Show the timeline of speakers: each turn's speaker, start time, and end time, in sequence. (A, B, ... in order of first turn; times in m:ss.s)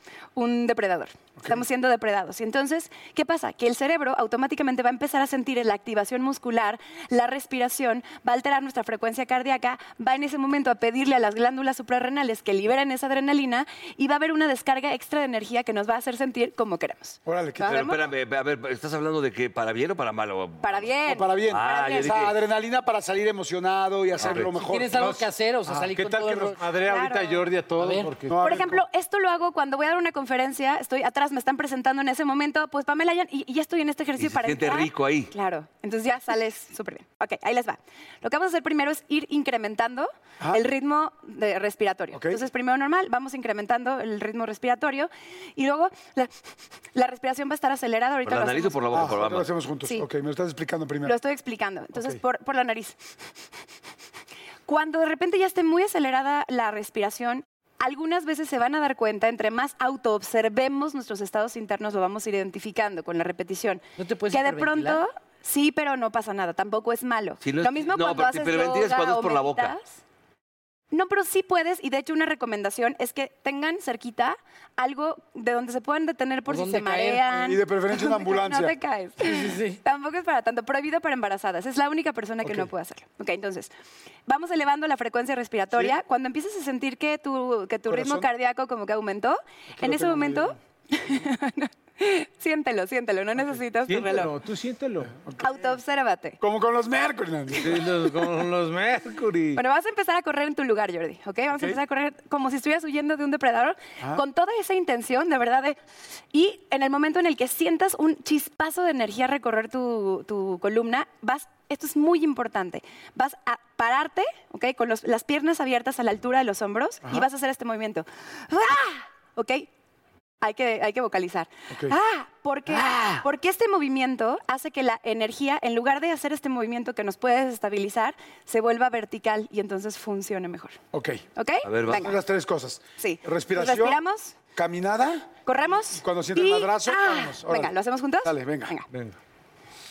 0:00.4-0:18.0 A
0:17.3-0:17.9 B
0:17.6-0:20.9 C
0:20.6-0:22.3 A
0:21.0-0:25.0 B
0:21.5-0:22.4 C
0:24.2-0:24.5 C
0:24.5-0:26.6 D
0:25.0-0:25.2 E
0:25.7-0:25.9 B
0:25.9-0:28.6 E
0:26.8-0:27.4 A
0:27.8-0:28.2 D
0:28.3-0:28.8 B
0:28.4-0:46.3 A
0:34.2-0:35.3 C
0:42.1-0:42.4 B
0:46.9-0:49.1 A
0:48.2-0:49.5 C
0:48.9-0:51.2 B
0:51.0-0:53.0 A
0:54.7-1:10.0 A
1:04.0-1:05.0 D
1:07.4-1:09.8 C
1:10.9-1:23.7 A
1:16.5-1:17.5 D
1:17.3-1:18.8 B
1:19.2-1:19.8 D
1:22.4-1:22.7 B
1:24.3-1:34.3 A
1:27.9-1:28.3 B
1:33.5-1:35.1 E
1:35.3-1:35.6 B
1:35.4-1:36.4 A
1:36.4-1:37.9 B
1:37.6-1:39.6 E
1:39.6-1:45.8 A
1:46.3-1:59.7 A
2:00.4-2:10.8 A
2:02.7-2:03.2 C
2:10.9-2:11.2 B
2:11.4-2:12.2 A
2:11.6-2:12.2 C
2:11.9-2:14.0 B
2:13.0-2:14.3 A
2:14.6-2:15.3 B
2:15.5-2:18.8 A
2:16.0-2:18.7 B
2:18.9-2:19.2 E